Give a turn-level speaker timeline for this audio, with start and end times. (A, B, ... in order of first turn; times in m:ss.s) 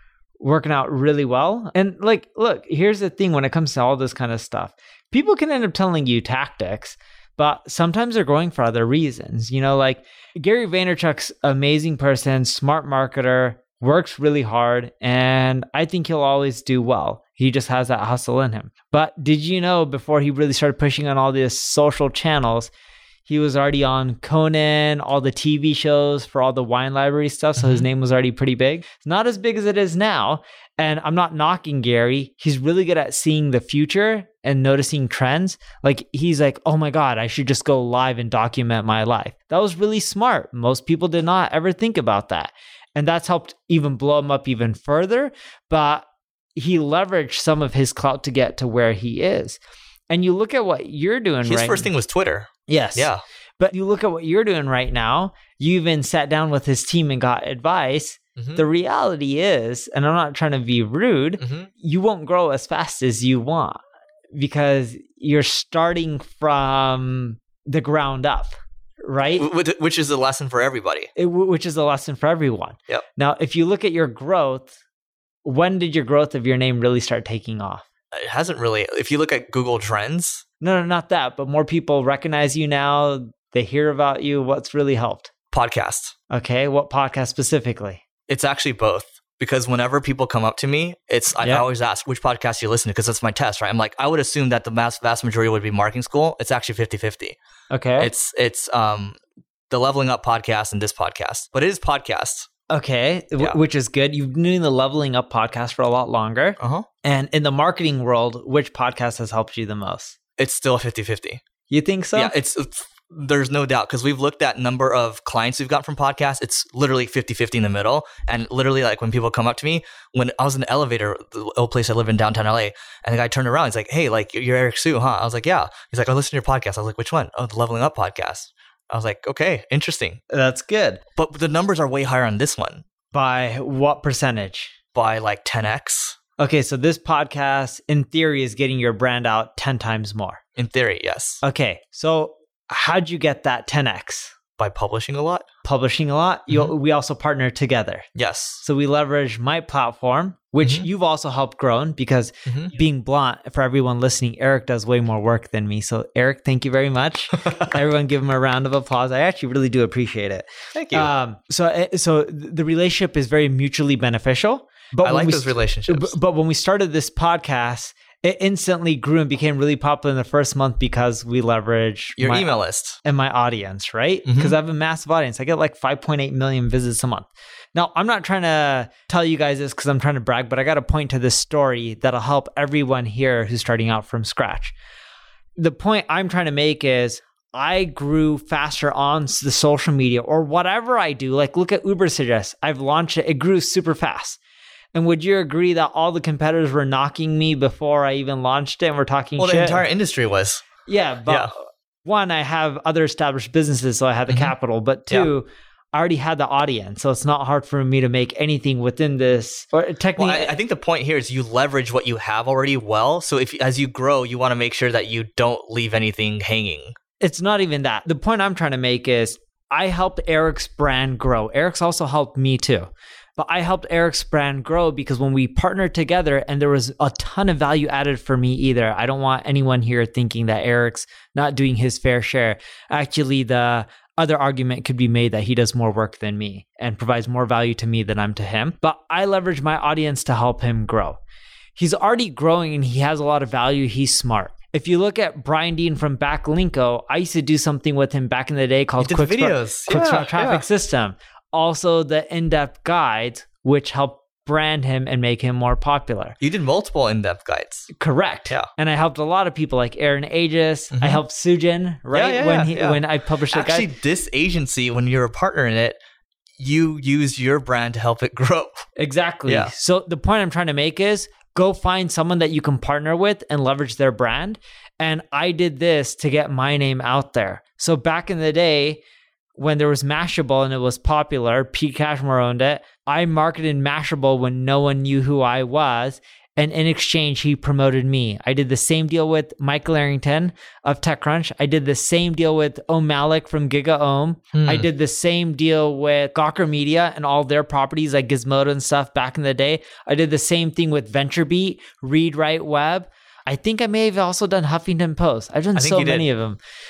0:00.4-0:22.7 A
0:23.2-0:51.9 A
0:27.6-0:27.8 B
0:51.4-0:53.2 B
0:52.7-1:03.8 A
0:58.4-0:58.6 B
1:01.4-1:01.7 B
1:04.3-1:09.5 A
1:09.4-1:11.1 B
1:11.2-1:14.7 A
1:15.4-1:17.8 A
1:18.1-1:20.4 B
1:20.6-1:25.3 A
1:25.5-1:26.1 B
1:26.3-1:28.0 A
1:28.3-1:37.4 B
1:31.4-1:31.7 A
1:37.7-1:38.1 A
1:38.0-1:39.2 B
1:39.7-1:42.5 B
1:42.7-1:50.2 A
1:46.6-1:46.8 B
1:50.4-1:51.4 B
1:51.7-1:52.3 A
1:52.1-2:10.2 B
2:10.3-2:11.0 A
2:11.2-2:12.8 B
2:13.1-2:14.7 A
2:14.9-2:16.2 B
2:16.4-2:20.4 A
2:20.6-2:21.4 B
2:21.4-2:24.3 A
2:24.6-2:25.4 B
2:25.6-2:28.0 A
2:28.2-2:28.6 B
2:28.6-3:04.7 A
2:30.6-2:30.8 B
2:32.5-2:32.7 B
2:40.7-2:41.1 B
2:45.0-2:46.1 B
2:52.2-2:53.0 B
2:54.2-2:54.6 B
3:05.6-3:14.4 A
3:14.9-3:19.8 A
3:19.4-3:20.7 B
3:20.9-3:21.5 A
3:22.0-3:30.5 A
3:24.3-3:24.5 B
3:30.2-3:37.0 B
3:37.2-4:01.2 A
4:01.8-4:16.4 A
4:09.0-4:10.6 B
4:16.4-4:17.9 B
4:17.9-4:23.9 A
4:20.9-4:21.2 B
4:22.1-4:26.0 B
4:26.6-4:28.8 B
4:29.0-4:39.0 A
4:29.4-4:29.7 B
4:39.6-5:06.6 A
4:54.5-4:54.8 B
5:05.7-5:06.3 B